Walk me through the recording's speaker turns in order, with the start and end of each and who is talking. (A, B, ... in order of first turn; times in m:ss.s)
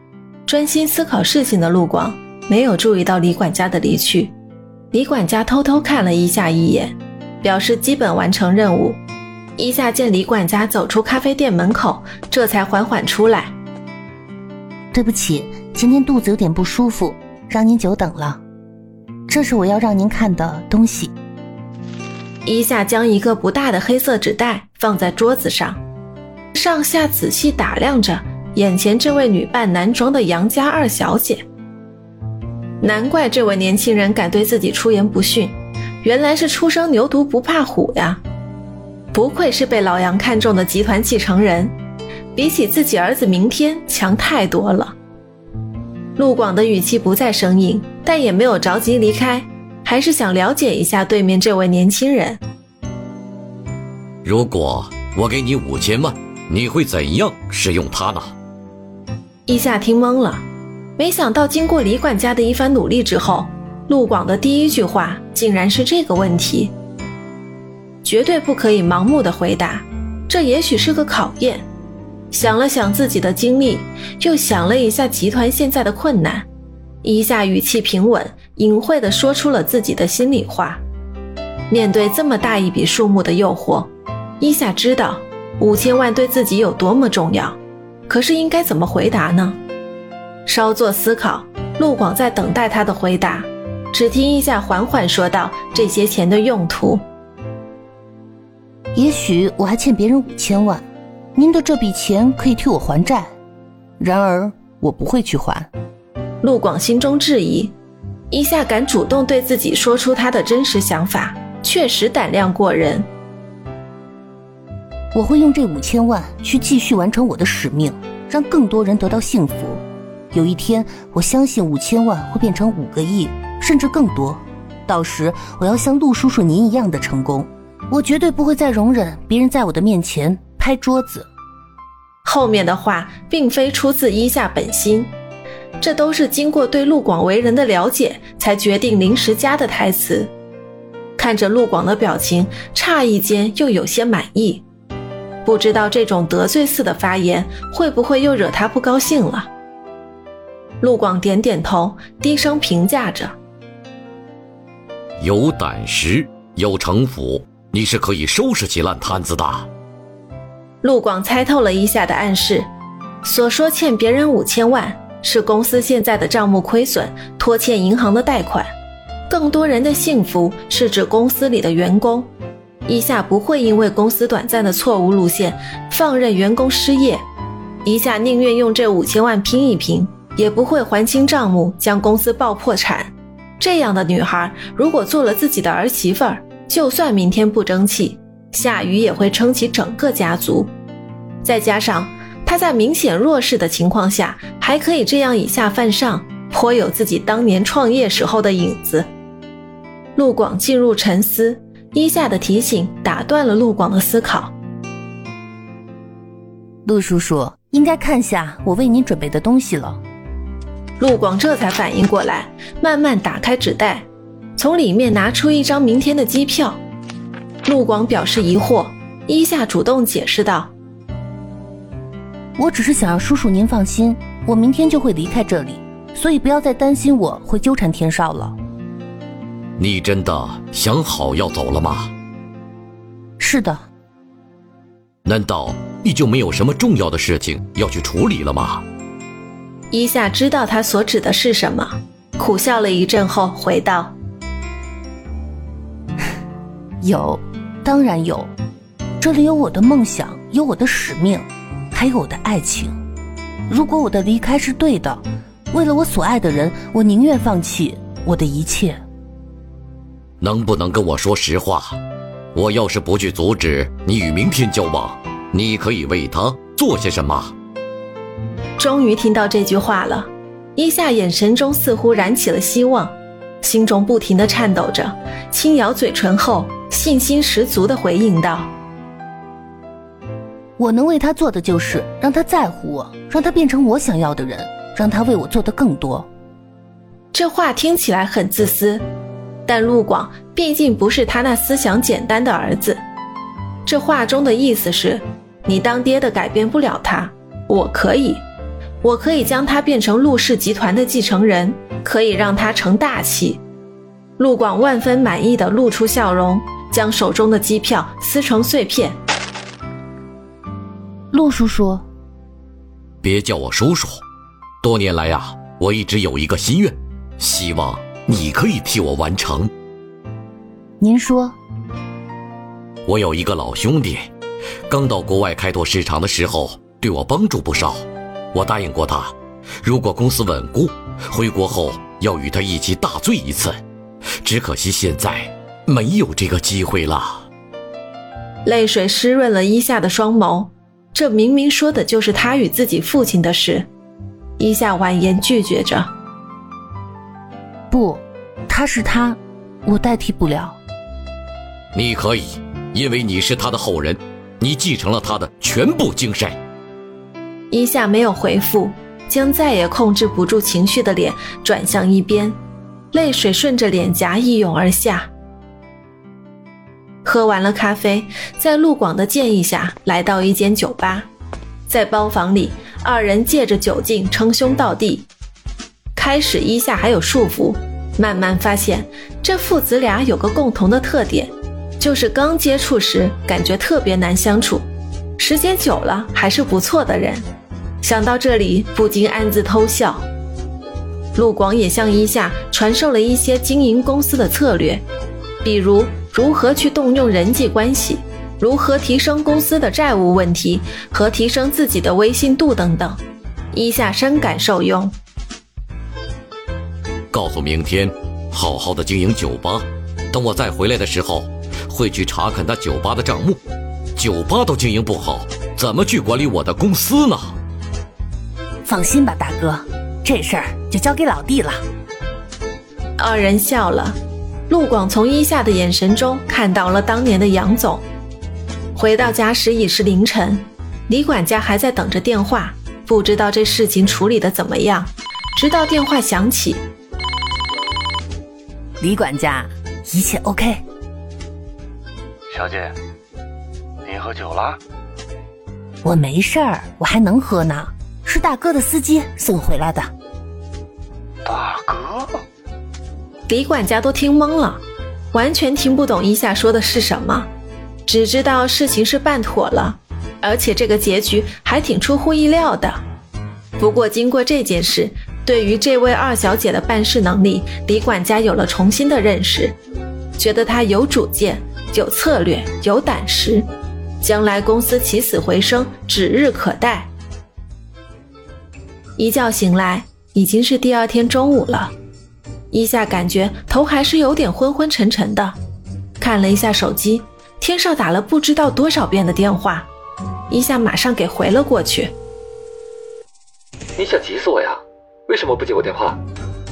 0:00.5-0:04.3 A
0:04.9-0:09.0 A
0:09.6-0:13.5 A
0:14.9-0:18.4 B
0:19.3-0:21.1 B
0:22.4-0:25.8 A
0:26.5-0:31.4 A
0:32.8-0:38.2 A
0:39.1-0:41.7 A
0:42.3-0:44.9 A
0:46.2-0:52.4 A
0:54.2-0:58.3 C
0:59.5-1:00.4 A
1:01.0-1:06.7 A
1:08.0-1:11.7 A
1:12.3-1:16.4 A
1:17.0-1:20.8 A
1:21.7-1:29.6 A
1:30.4-1:37.0 A
1:38.9-1:40.8 B
1:41.4-1:43.3 B
1:44.0-1:45.7 B
1:46.4-1:47.7 A
1:48.3-1:53.1 A
1:55.1-2:11.3 B
2:12.2-2:15.1 A
2:15.8-2:20.3 A
2:21.2-2:24.6 A
2:25.4-2:29.5 A
2:30.8-2:33.4 A
2:35.2-2:39.7 C
2:40.8-2:42.7 A
2:43.2-2:48.7 A
2:49.3-2:52.3 A
2:52.9-2:57.2 A
2:57.8-3:10.7 A
3:11.4-3:19.1 A
3:20.2-3:24.5 A
3:26.8-3:30.0 B
3:31.0-3:34.0 A
3:34.6-3:36.8 A
3:37.6-3:40.7 A
3:42.6-3:48.6 B
3:49.8-3:52.1 C
3:53.4-3:53.8 B
3:55.2-3:58.8 C
3:59.9-4:04.1 A
4:07.0-4:08.5 B
4:09.2-4:13.0 B
4:13.7-4:19.0 B
4:20.4-4:22.0 C
4:22.5-4:27.5 C
4:28.8-4:38.7 A
4:40.8-4:46.3 B
4:47.3-4:49.0 A
4:49.6-4:53.0 A
4:53.8-4:58.4 A
4:59.0-5:03.6 A
5:04.4-5:09.2 A
5:11.3-5:12.0 B
5:13.2-5:14.2 C
5:14.8-5:19.7 C
5:21.0-5:21.6 B
5:23.1-5:24.3 C
5:24.9-5:33.8 C
5:34.4-5:37.4 C
5:38.6-5:43.9 A
5:44.6-5:46.1 A
5:47.9-5:50.8 B
5:51.9-5:56.6 C
5:57.7-6:02.6 A
6:03.1-6:05.3 A
6:07.2-6:11.3 A
6:11.9-6:15.3 A
6:16.1-6:24.9 A
6:25.4-6:27.4 A
6:28.0-6:30.2 A
6:31.3-6:35.0 A
6:35.6-6:43.2 A
6:43.7-6:45.1 A
6:47.3-6:53.6 C
6:54.2-6:57.6 C
6:58.8-7:01.8 B
7:03.2-7:08.0 A
7:08.9-7:16.8 A
7:19.0-7:20.8 B
7:22.5-7:22.9 D
7:24.0-7:24.8 D
7:26.0-7:30.1 B
7:31.4-7:32.4 D
7:33.5-7:37.5 A
7:38.0-7:43.0 A
7:43.8-7:49.8 A
7:50.4-7:53.7 A
7:54.2-7:57.1 A
7:59.2-8:01.9 A
8:02.7-8:05.6 A
8:06.2-8:09.9 A
8:10.5-8:12.1 A
8:14.0-8:16.2 E